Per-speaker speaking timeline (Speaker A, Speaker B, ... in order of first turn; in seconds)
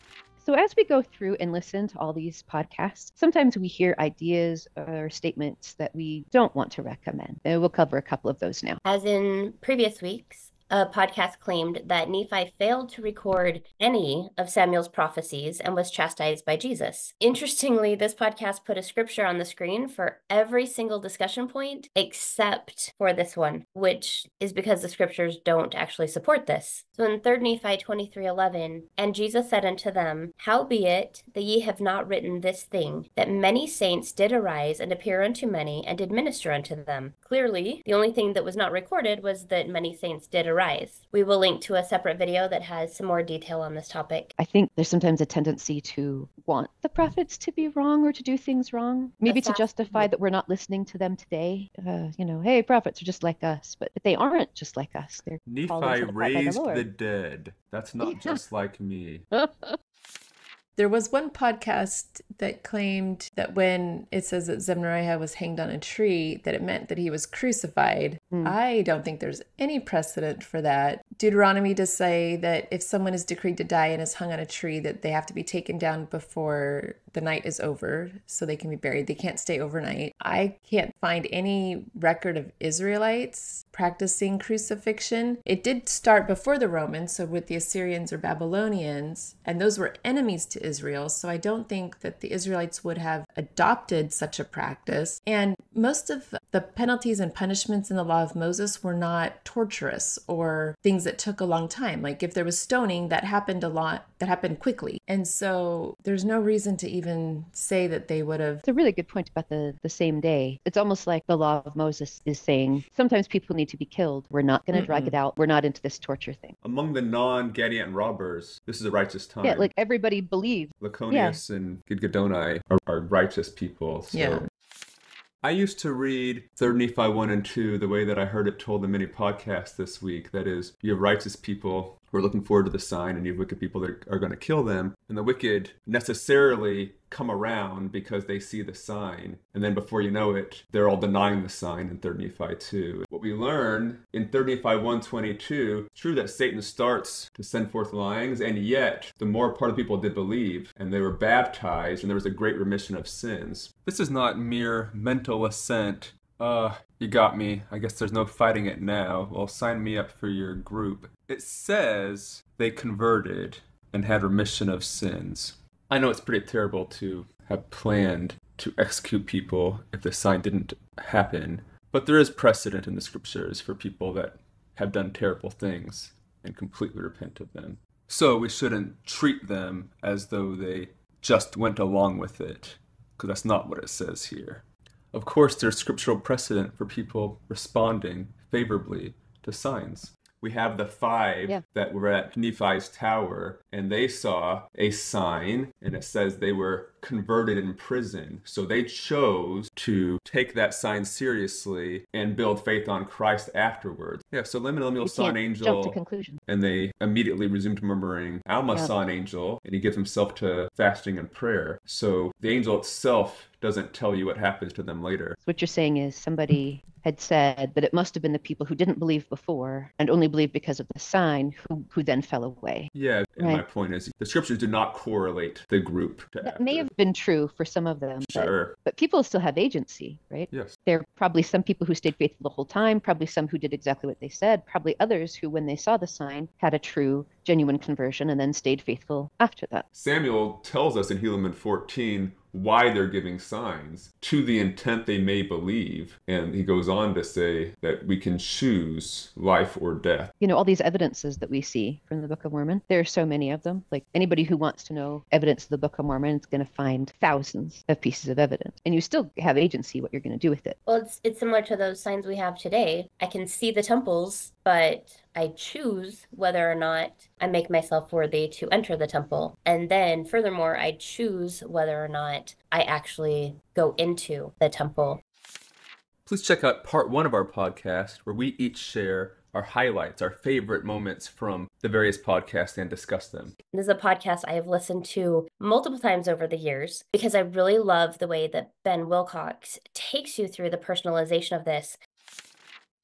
Speaker A: 0.4-8.8, 44.4-56.9, 58.0-58.4, 59.3-59.7, 68.3-68.6, 108.6-116.5, 119.4-121.4, 205.0-206.4, 215.4-223.6, 226.4-239.8, 250.4-260.8
Speaker B: 8.8-44.3, 49.2-50.1, 260.9-275.2, 283.7-292.0
Speaker C: 55.4-59.2, 116.6-119.7, 120.8-124.4, 125.4-215.4, 222.9-226.9, 228.2-228.7, 230.5-230.8, 239.9-250.3, 276.2-283.5
Speaker D: 60.8-108.6, 114.7-115.2, 124.1-124.5